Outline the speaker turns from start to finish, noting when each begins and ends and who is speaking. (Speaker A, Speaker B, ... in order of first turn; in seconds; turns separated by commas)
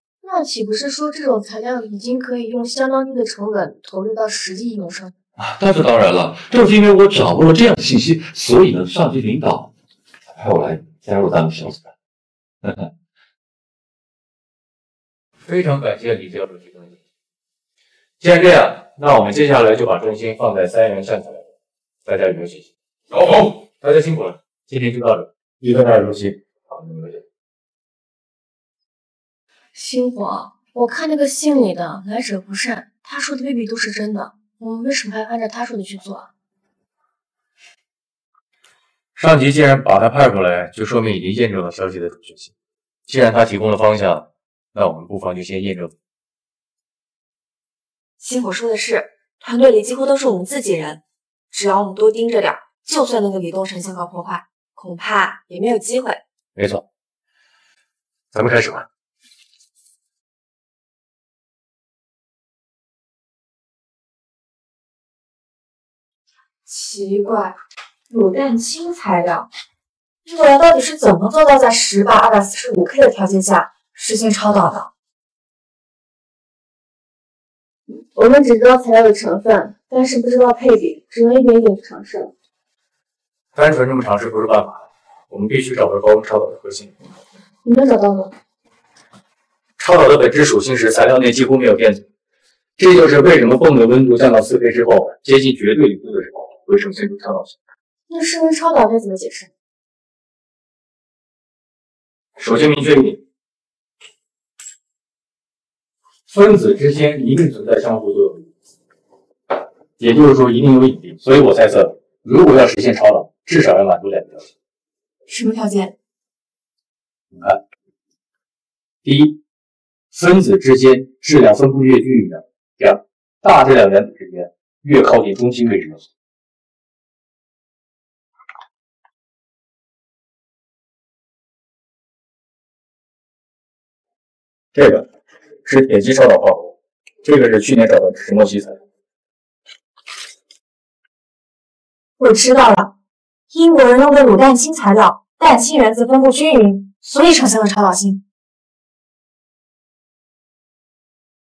Speaker A: 0.2-5.1, Speaker B: 5.4-9.7, Speaker B: 10.3-11.9, Speaker B: 12.6-12.9, Speaker C: 15.4-17.0, Speaker C: 18.2-21.5, Speaker C: 22.0-27.2, Speaker A: 29.7-36.3, Speaker C: 39.1-42.5, Speaker C: 43.1-45.9, Speaker D: 48.2-51.0, Speaker D: 51.5-56.2, Speaker C: 56.5-56.8, Speaker C: 58.3-58.9, Speaker D: 66.7-67.6, Speaker D: 68.1-69.5, Speaker D: 70.2-74.9, Speaker A: 78.1-82.3, Speaker C: 83.5-86.9, Speaker A: 87.6-88.3, Speaker C: 89.8-92.0, Speaker C: 92.8-97.6, Speaker A: 98.1-99.5, Speaker C: 102.4-103.2, Speaker C: 106.3-108.5, Speaker C: 110.0-114.5, Speaker D: 115.3-115.9, Speaker C: 119.0-119.4, Speaker C: 120.1-126.0, Speaker C: 134.7-135.1, Speaker C: 135.6-138.8, Speaker D: 142.2-142.9, Speaker D: 143.5-148.2